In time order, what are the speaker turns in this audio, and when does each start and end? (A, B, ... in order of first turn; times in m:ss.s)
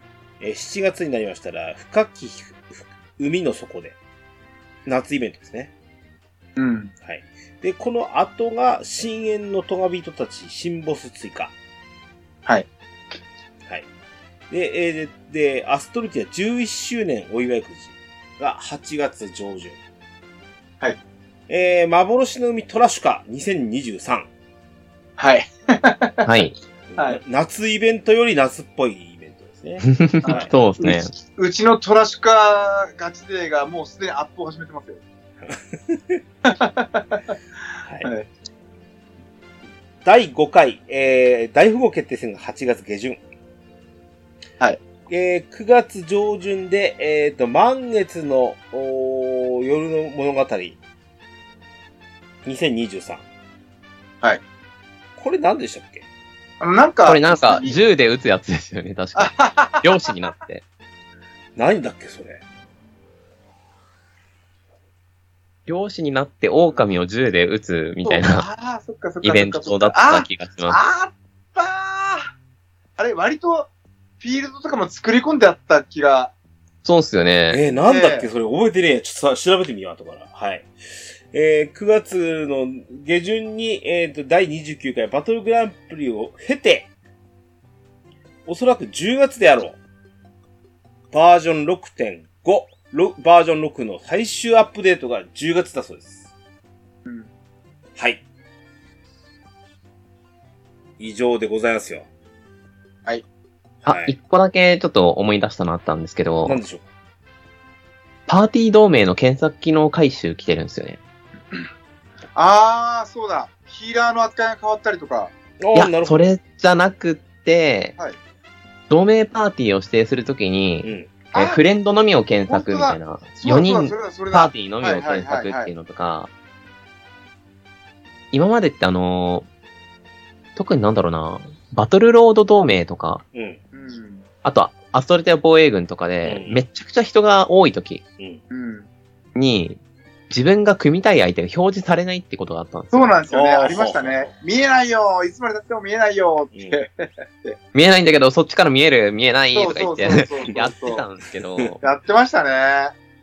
0:00.4-0:04.0 A
0:04.9-0:05.7 A
0:06.6-0:06.9 B
0:07.0-0:11.5 A
0:14.5-0:19.8 A
0:21.5-0:24.3 A
0:25.2-0:26.3 B
0:26.2-0:26.6 C
0:26.9-0:30.5 A
0:29.8-0:31.1 C
0:30.2-0:35.0 B
0:35.4-0:36.2 A
0:36.4-0:37.3 B
0:37.8-0:38.1 A
0:40.0-0:43.2 A
0:45.1-0:50.8 A
0:52.4-0:53.2 A
0:55.2-0:56.1 A
0:56.6-0:57.8 B
0:57.1-1:00.6 C
0:59.2-1:00.1 B
1:01.6-1:02.4 A
1:05.7-1:08.5 C
1:08.0-1:12.3 B
1:09.2-1:10.8 C
1:13.0-1:13.7 B
1:14.2-1:16.3 B
1:16.8-1:17.6 C
1:17.5-1:26.9 A
1:17.8-1:18.3 B
1:28.5-1:29.8 A
1:31.1-1:36.3 A
1:38.0-1:38.2 A
1:41.0-1:42.1 A
1:43.8-1:44.2 A
1:43.9-1:46.6 C
1:46.4-1:46.9 A
1:48.3-1:51.0 C
1:52.4-1:55.3 B
1:55.6-1:56.2 A
1:55.7-1:58.0 C
1:58.9-2:06.3 C
2:00.8-2:01.1 A
2:01.3-2:01.6 B
2:02.5-2:05.7 B
2:08.3-2:09.5 C
2:10.6-2:13.2 C
2:13.3-2:13.6 A
2:13.7-2:14.3 B
2:14.4-2:18.0 C
2:16.2-2:16.6 A
2:18.5-2:18.9 B
2:19.4-2:23.2 C
2:22.9-2:27.6 B
2:23.3-2:24.3 A
2:26.5-2:26.8 A
2:27.7-2:31.8 C
2:29.5-2:31.0 B
2:31.8-2:32.9 B